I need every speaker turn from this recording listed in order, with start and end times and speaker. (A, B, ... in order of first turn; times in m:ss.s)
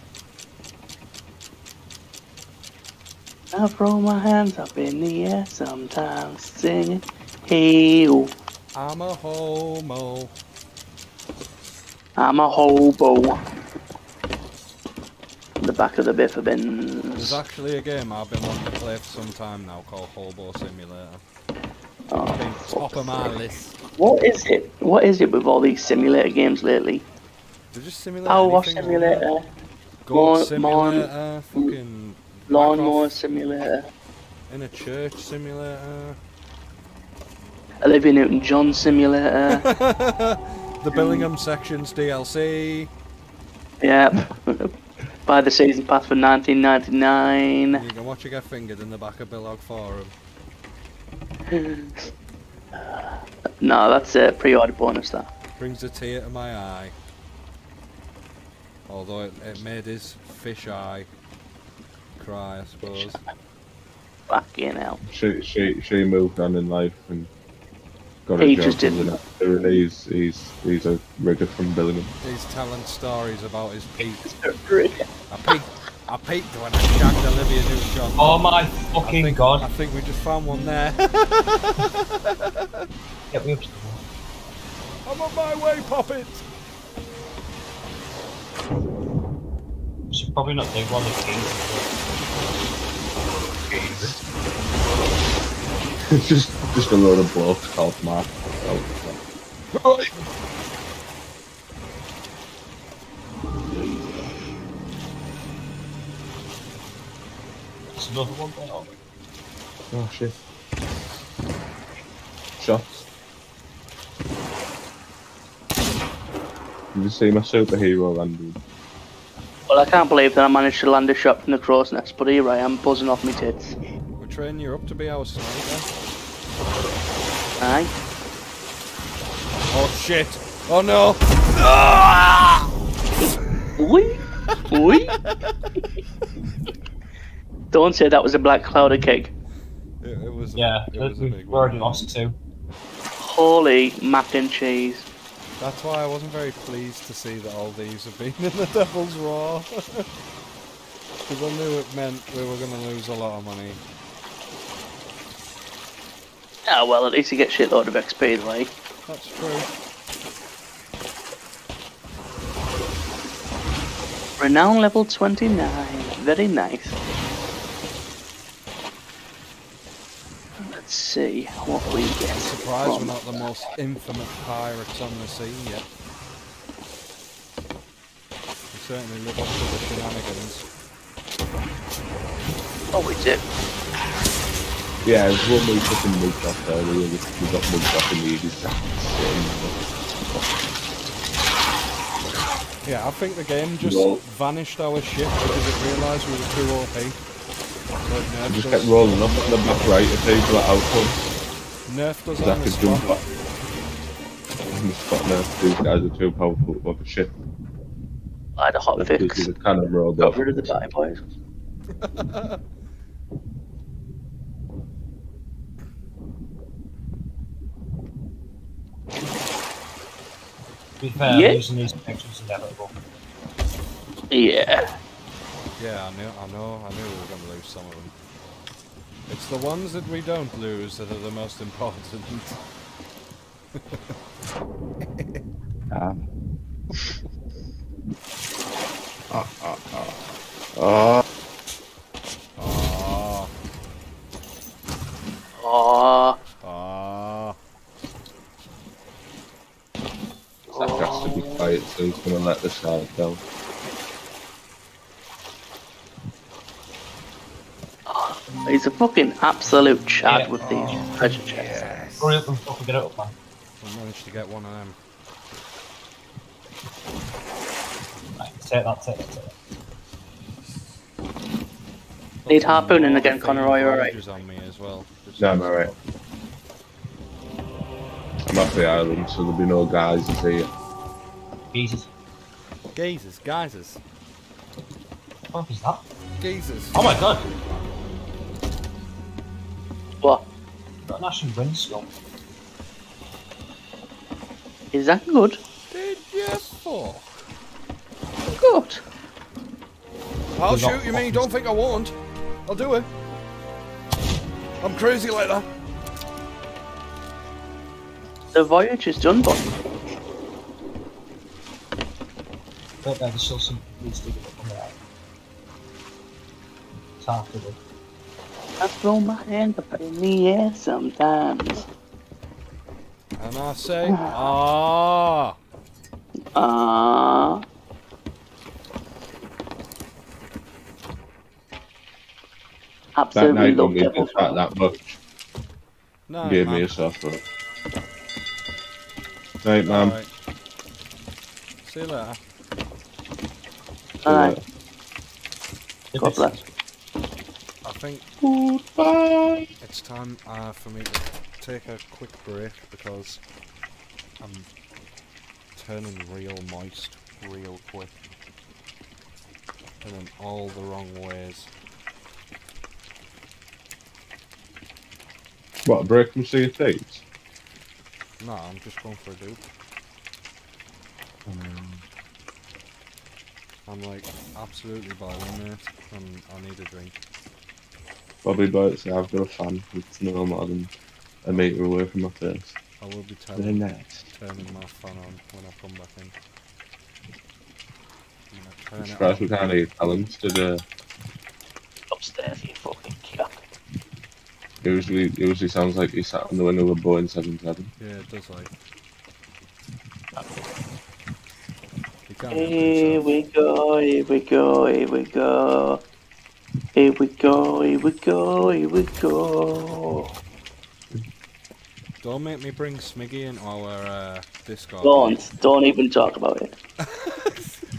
0:03.5-0:08.3 A
0:08.7-0:10.3 B
0:12.2-0:13.4 A
0:15.6-0:17.4 A
0:17.2-0:21.2 B
0:22.1-0:23.2 A
0:22.3-0:23.8 B
0:24.0-0:27.0 A
0:27.7-0:29.3 B
0:28.3-0:29.5 A
0:30.1-0:33.1 B
0:30.1-0:31.8 A
0:32.5-0:33.9 A
0:34.5-0:36.2 B
0:37.8-0:39.7 A
0:39.5-0:42.9 B
0:40.9-0:41.3 A
0:43.8-0:44.7 A
0:45.3-0:47.8 A
0:47.7-0:50.1 B
0:51.5-0:52.0 A
0:52.7-0:55.3 A
0:55.6-0:57.0 B
0:58.9-1:01.1 B
1:02.2-1:03.2 B
1:02.8-1:03.2 A
1:04.3-1:05.0 A
1:05.1-1:07.3 C
1:08.2-1:12.1 C
1:08.4-1:09.2 A
1:12.2-1:14.3 B
1:14.3-1:15.1 A
1:15.3-1:18.4 B
1:18.2-1:19.7 D
1:19.0-1:22.9 B
1:23.3-1:24.0 D
1:25.0-1:26.4 B
1:30.1-1:32.1 D
1:33.5-1:34.2 C
1:36.1-1:39.2 C
1:39.7-1:40.2 C
1:43.7-1:44.4 C
1:48.0-1:48.9 D
1:49.9-1:50.4 C
1:52.6-1:52.9 C
1:56.9-1:58.6 C
1:59.7-2:03.8 A
2:04.2-2:05.9 B
2:07.6-2:07.9 A
2:09.7-2:12.7 B
2:13.8-2:15.2 A
2:15.2-2:15.5 B
2:17.7-2:19.3 A
2:20.0-2:22.1 B
2:20.6-2:22.4 D
2:23.2-2:25.1 A
2:25.6-2:30.1 B
2:31.2-2:33.8 B
2:36.7-2:38.7 A
2:39.1-2:39.7 B
2:44.4-2:47.0 A
2:50.6-2:53.5 A
2:52.3-2:55.9 B
2:58.7-3:00.6 B
3:02.9-3:03.4 A
3:05.0-3:09.8 C
3:12.8-3:17.2 B
3:13.8-3:14.2 C
3:18.0-3:19.5 B
3:18.5-3:21.3 C
3:21.9-3:23.3 B
3:22.4-3:23.2 C
3:24.7-3:27.3 C
3:28.6-3:29.5 A
3:29.0-3:30.8 C
3:30.2-3:31.2 A
3:32.0-3:32.6 B
3:41.0-3:43.0 D
3:41.3-3:41.6 A
3:44.3-3:45.0 A
3:45.8-3:48.1 B
3:49.3-3:52.6 B
3:53.8-3:54.1 B
3:55.2-3:55.4 B
3:55.9-3:56.3 C
3:59.3-4:01.2 C
4:02.6-4:03.5 B
4:05.6-4:06.4 A
4:06.6-4:07.6 B
4:10.7-4:11.8 A
4:10.8-4:13.4 C
4:18.1-4:21.7 A
4:20.3-4:20.6 D
4:21.8-4:22.2 B
4:22.2-4:23.3 D
4:23.8-4:25.0 B
4:28.3-4:29.6 D
4:32.4-4:36.0 B
4:32.5-4:34.2 A
4:35.4-4:35.9 C
4:38.5-4:40.7 C
4:41.7-4:42.1 D
4:43.0-4:44.0 B
4:45.5-4:46.0 D
4:46.4-4:47.9 B
4:46.9-4:47.5 D
4:51.1-4:52.1 D
4:54.9-4:55.6 A
4:55.9-4:57.3 B
4:58.5-4:59.0 A
5:00.6-5:02.2 B
5:00.7-5:01.5 D
5:02.7-5:03.1 B
5:04.8-5:05.7 B
5:08.5-5:09.8 A
5:13.0-5:15.0 D
5:17.2-5:17.8 D
5:18.8-5:21.8 A
5:23.4-5:25.6 B
5:24.1-5:24.5 A
5:26.5-5:27.6 A
5:33.2-5:34.6 A
5:33.4-5:35.2 C
5:36.3-5:36.9 B
5:36.4-5:37.4 C
5:39.6-5:40.2 C
5:39.9-5:40.3 B
5:41.8-5:42.4 B
5:44.2-5:44.6 A
5:44.2-5:44.6 C
5:46.1-5:46.6 D
5:46.2-5:46.5 A
5:47.8-5:48.3 B
5:48.4-5:49.7 C
5:49.8-5:53.4 B
5:54.4-5:54.7 B
5:55.8-5:58.2 B
6:00.0-6:01.7 B
6:05.8-6:07.2 C
6:08.4-6:09.6 B
6:11.5-6:12.0 C
6:13.9-6:17.2 B
6:18.4-6:20.9 C
6:21.4-6:22.8 C
6:23.0-6:26.3 B
6:23.6-6:24.2 C
6:28.5-6:29.7 B
6:29.0-6:30.8 C
6:32.1-6:33.6 A
6:34.8-6:37.9 C
6:38.0-6:38.7 B
6:42.3-6:43.2 B
6:42.5-6:46.0 A
6:47.0-6:50.3 A
6:52.2-6:55.4 B
6:55.0-6:56.7 A
6:57.1-6:57.7 B